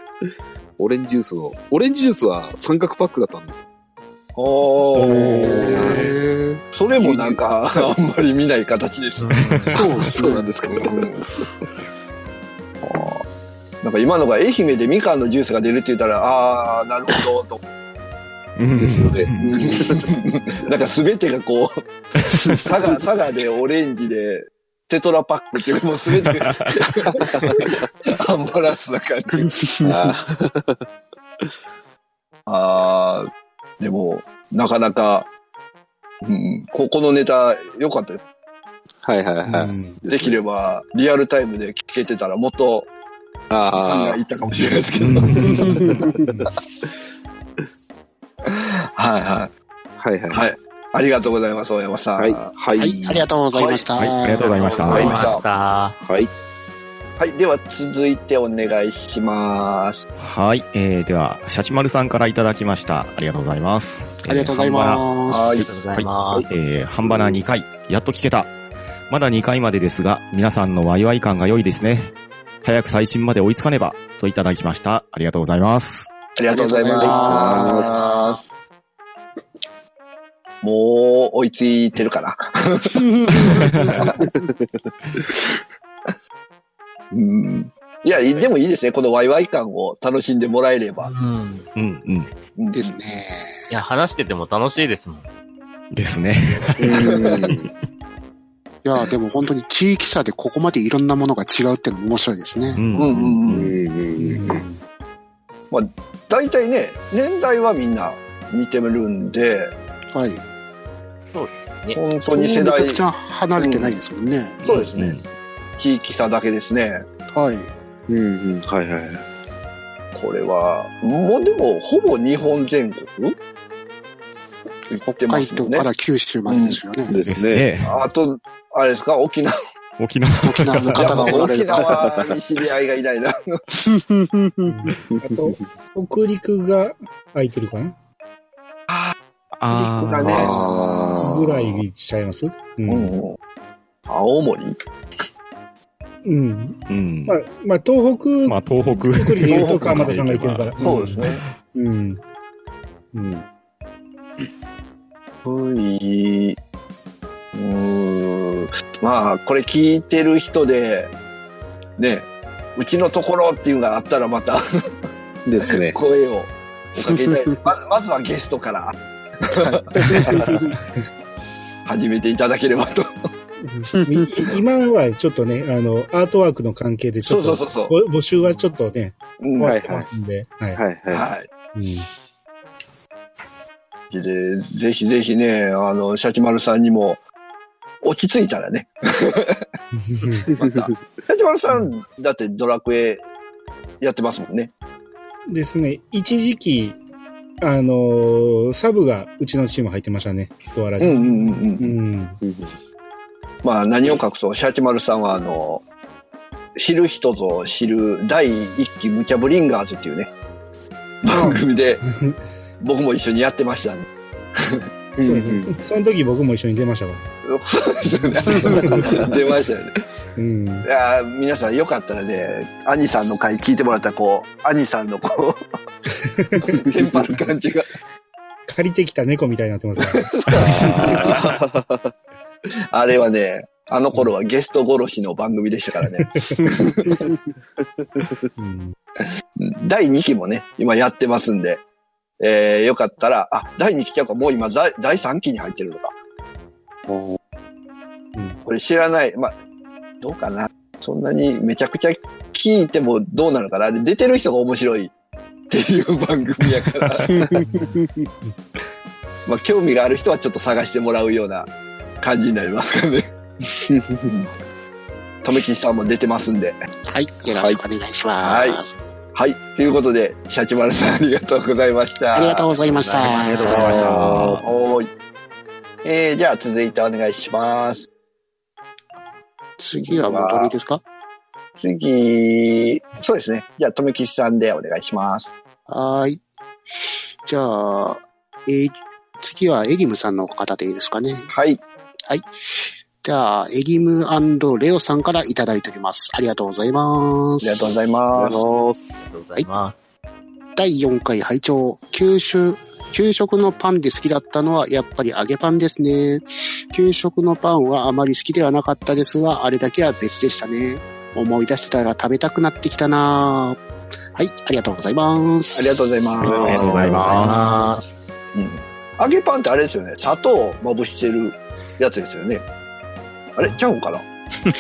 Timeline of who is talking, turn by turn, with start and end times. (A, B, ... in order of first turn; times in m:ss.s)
0:00.8-0:03.6 A
0:04.4-0:06.0 B
0:04.9-0:06.1 C
0:05.1-0:06.6 D
0:06.7-0:09.4 B
0:07.0-0:07.9 A
0:09.2-0:09.9 E
0:09.4-0:09.7 C
0:09.7-0:10.5 D
0:09.7-0:11.1 A
0:10.2-0:11.2 B
0:12.8-0:13.2 B
0:13.8-0:17.6 B
0:18.6-0:19.6 C
0:18.8-0:19.9 A
0:19.4-0:21.8 B
0:22.3-0:29.5 B
0:29.3-0:30.1 D
0:29.8-0:30.8 A
0:32.5-0:35.3 B
0:36.2-0:38.2 B
0:39.0-0:40.4 A
0:39.5-0:40.0 F
0:40.0-0:42.9 B
0:43.5-0:44.2 A
0:43.8-0:45.8 B
0:45.0-0:45.8 C
0:45.4-0:46.3 D
0:48.5-0:49.5 B
0:50.0-0:50.5 A
0:50.3-0:52.5 B
0:52.2-0:53.3 A
0:52.8-0:54.6 D
0:53.5-0:53.8 B
0:54.0-0:55.3 C
0:54.5-0:56.0 E
0:54.6-0:55.4 A
0:54.9-0:55.4 B
0:56.0-0:56.3 A
0:57.2-1:00.0 B
1:00.2-1:08.5 C
1:04.3-1:05.6 D
1:05.3-1:05.7 B
1:05.5-1:06.5 E
1:07.0-1:07.4 A
1:09.1-1:16.1 C
1:16.4-1:18.4 B
1:16.5-1:18.4 D
1:17.0-1:18.2 A
1:20.6-1:24.3 B
1:23.0-1:24.4 D
1:23.6-1:23.9 C
1:27.1-1:31.1 B
1:28.1-1:28.5 E
1:31.0-1:31.7 E
1:31.8-1:32.3 C
1:32.6-1:33.0 B
1:32.7-1:33.7 D
1:33.7-1:35.3 E
1:35.9-1:37.6 C
1:36.8-1:37.7 A
1:36.9-1:37.4 B
1:38.8-1:42.8 D
1:42.7-1:43.7 C
1:42.9-1:43.7 B
1:43.4-1:44.6 A
1:44.2-1:44.8 F
1:45.7-1:49.7 B
1:50.1-1:50.4 D
1:51.3-1:52.0 E
1:51.9-1:53.0 B
1:52.2-1:54.6 D
1:53.6-1:54.0 B
1:54.6-1:55.2 C
1:54.6-1:55.2 B
1:55.8-1:57.0 B
1:57.3-1:57.7 D
1:58.1-1:59.2 A
2:00.1-2:03.4 B
2:04.9-2:05.9 B
2:05.0-2:07.2 D
2:06.5-2:06.8 B
2:07.1-2:07.7 A
2:07.2-2:07.9 C
2:07.8-2:09.6 B
2:10.0-2:11.2 C
2:10.4-2:12.0 D
2:10.9-2:13.6 B
2:11.2-2:12.3 A
2:13.8-2:14.7 D
2:14.6-2:17.9 F
2:15.1-2:15.4 A
2:18.9-2:19.1 B
2:19.6-2:20.5 C
2:19.7-2:20.7 B
2:20.2-2:21.8 A
2:20.4-2:21.2 D
2:21.2-2:23.1 F
2:22.9-2:23.4 B
2:24.1-2:24.8 B
2:26.2-2:32.2 F
2:26.9-2:27.4 C
2:28.4-2:31.3 C
2:29.6-2:30.0 A
2:30.8-2:31.4 B
2:33.1-2:33.4 F
2:35.4-2:36.6 B
2:37.5-2:41.1 B
2:42.0-2:44.6 B
2:45.4-2:46.0 A
2:45.7-2:50.2 B
2:47.1-2:47.5 D
2:50.0-2:50.2 D
2:50.2-2:50.6 A
2:51.9-2:53.1 B
2:53.6-3:00.9 F
2:53.9-2:54.2 D
2:57.2-2:57.9 B
2:59.4-2:59.8 B
2:59.6-3:00.1 A
3:00.7-3:01.3 A
3:01.1-3:01.5 B
3:01.7-3:02.1 F
3:04.1-3:07.2 B
3:08.0-3:09.6 B
3:09.9-3:10.5 F
3:10.5-3:13.2 B
3:14.0-3:14.7 B
3:15.5-3:17.0 F
3:17.6-3:22.4 F
3:21.0-3:21.9 B
3:22.4-3:22.7 A
3:23.6-3:25.8 B
3:26.8-3:30.3 B
3:31.2-3:32.0 B
3:31.3-3:32.4 F
3:32.8-3:34.1 B
3:35.2-3:35.7 A
3:35.2-3:37.2 F
3:37.5-3:39.9 B
3:38.6-3:39.0 F
3:38.7-3:39.2 A
3:40.4-3:40.8 F
3:40.8-3:45.6 B
3:46.3-3:46.8 F
3:46.8-3:47.9 B
3:48.7-3:51.2 F
3:50.0-3:51.5 B
3:50.5-3:52.1 A
3:52.9-3:57.3 B
3:56.2-3:56.8 F
3:58.0-3:58.3 A
3:58.6-3:59.0 F
3:59.2-4:01.8 B
4:02.4-4:06.1 B
4:07.1-4:07.4 A
4:08.3-4:08.6 F
4:08.6-4:09.5 B
4:10.2-4:15.1 B
4:15.7-4:17.4 B
4:17.3-4:18.1 D
4:17.5-4:18.5 F
4:19.4-4:23.3 B
4:23.8-4:24.4 A
4:25.4-4:26.8 B
4:27.1-4:28.9 D
4:27.4-4:27.8 A
4:28.4-4:28.8 B
4:29.3-4:32.7 B
4:32.3-4:34.2 D
4:33.0-4:33.6 E
4:33.3-4:34.6 C
4:33.7-4:34.0 B
4:34.0-4:34.6 A
4:34.6-4:35.1 B
4:36.0-4:38.0 B
4:39.8-4:41.0 D
4:40.1-4:40.8 B
4:41.8-4:45.5 B
4:45.9-4:46.4 D
4:47.4-4:51.5 D
4:51.5-4:51.8 B
4:53.2-4:57.9 D
4:57.6-4:58.6 B
4:58.3-4:59.3 A
4:59.2-5:00.0 E
5:00.8-5:13.8 D
5:14.3-5:18.0 D
5:15.7-5:17.3 B
5:16.4-5:17.0 A
5:16.4-5:17.7 C
5:17.3-5:18.0 E
5:18.5-5:22.6 B
5:23.5-5:24.2 B